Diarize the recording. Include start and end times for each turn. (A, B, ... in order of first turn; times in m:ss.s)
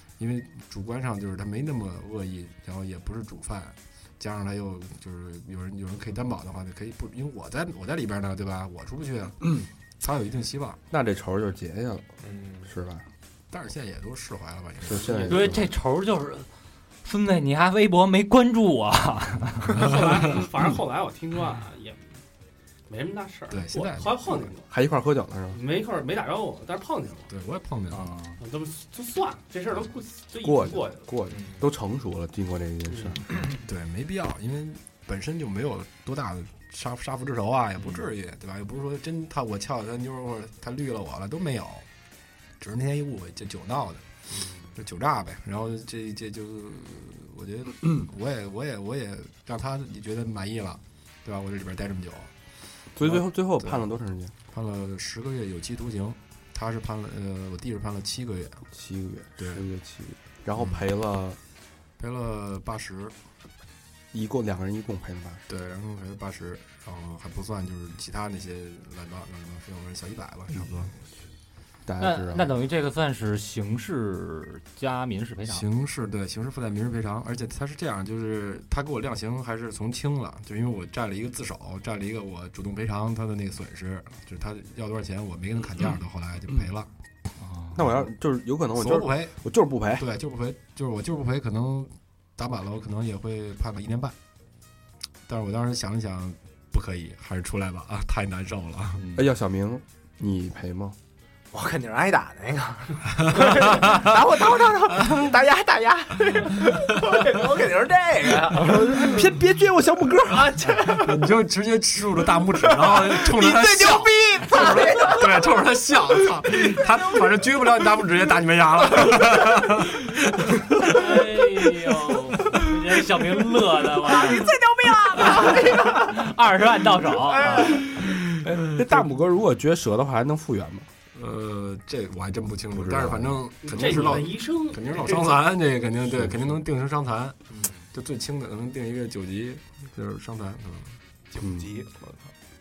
0:00.2-0:10.8 A
0:10.9-0:12.1 B
0:12.2-0:12.7 C
0:12.6-0:13.1 B
0:13.5-0:15.6 A
0:14.8-0:15.7 B
0:15.3-0:16.5 D
0:17.0-0:19.9 D
0:19.7-0:22.2 E
0:22.9-0:24.7 E
0:23.5-0:24.5 A
0:24.7-0:25.6 B
0:25.5-0:27.3 E
0:27.3-0:28.1 A
0:27.9-0:28.4 D
0:28.4-0:31.1 E
0:30.4-0:33.5 B
0:33.6-0:41.9 A
0:42.6-0:44.1 A
0:44.3-0:44.7 C
0:44.8-0:52.3 A
0:53.0-0:54.3 B
0:53.0-0:53.8 A
0:54.5-0:58.7 A
0:58.7-1:01.4 B
0:59.4-0:59.6 A
1:02.0-1:03.2 A
1:04.1-1:05.4 B
1:05.5-1:10.9 A
1:11.9-1:12.5 B
1:12.0-1:15.6 D
1:15.5-1:26.9 A
1:27.4-1:27.8 D
1:27.7-1:30.1 B
1:28.8-1:29.4 A
1:30.0-1:34.2 A
1:35.3-1:39.1 A
1:39.0-1:39.3 D
1:39.2-1:41.0 B
1:41.5-1:48.9 C
1:48.5-1:50.7 B
1:50.3-1:51.2 C
1:50.9-2:01.0 A
1:52.6-1:55.5 C
1:56.4-1:56.9 C
2:00.8-2:07.9 D
2:04.1-2:06.2 C
2:07.3-2:07.9 C
2:08.0-2:09.0 A
2:08.6-2:10.9 B
2:11.2-2:17.4 A
2:12.7-2:13.4 B
2:13.6-2:15.4 E
2:16.1-2:16.4 B
2:17.5-2:17.9 C
2:17.9-2:21.0 A
2:21.3-2:22.1 C
2:21.4-2:21.7 B